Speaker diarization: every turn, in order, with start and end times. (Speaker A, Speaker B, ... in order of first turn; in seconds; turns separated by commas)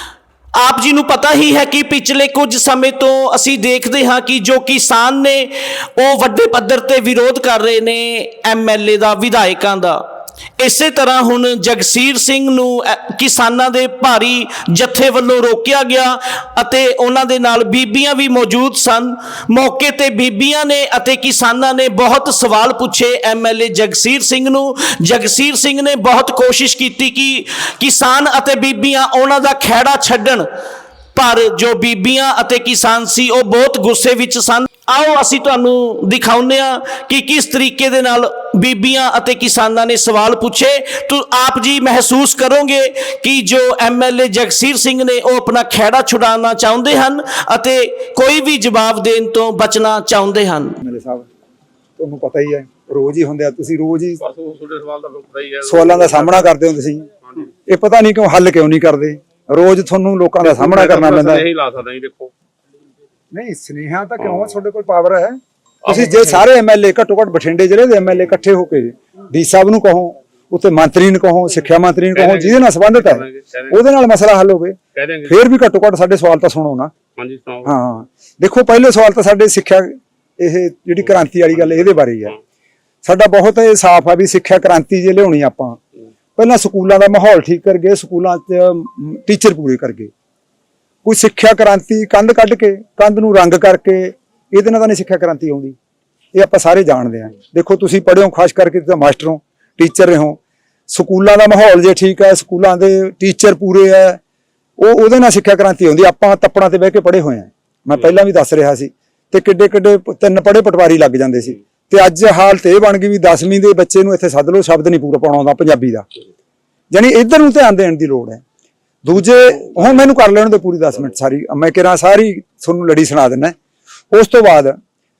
Speaker A: 0.6-10.0, Speaker A: 10.6-30.5, Speaker A: 31.1-50.8, Speaker B: 50.8-51.3, Speaker B: 52.0-54.2, Speaker C: 54.2-56.5, Speaker B: 55.6-57.0, Speaker B: 57.7-61.5, Speaker C: 60.4-62.3, Speaker B: 63.3-76.9, Speaker C: 65.8-66.4, Speaker C: 72.1-73.8, Speaker C: 75.0-75.4, Speaker C: 77.2-77.7, Speaker B: 77.6-82.3, Speaker C: 81.6-82.3, Speaker B: 83.0-85.8, Speaker B: 86.4-90.1, Speaker B: 91.0-95.8, Speaker B: 96.3-100.4, Speaker B: 100.9-104.2, Speaker B: 104.8-116.1, Speaker B: 116.9-118.4, Speaker B: 119.0-123.5, Speaker B: 124.1-124.8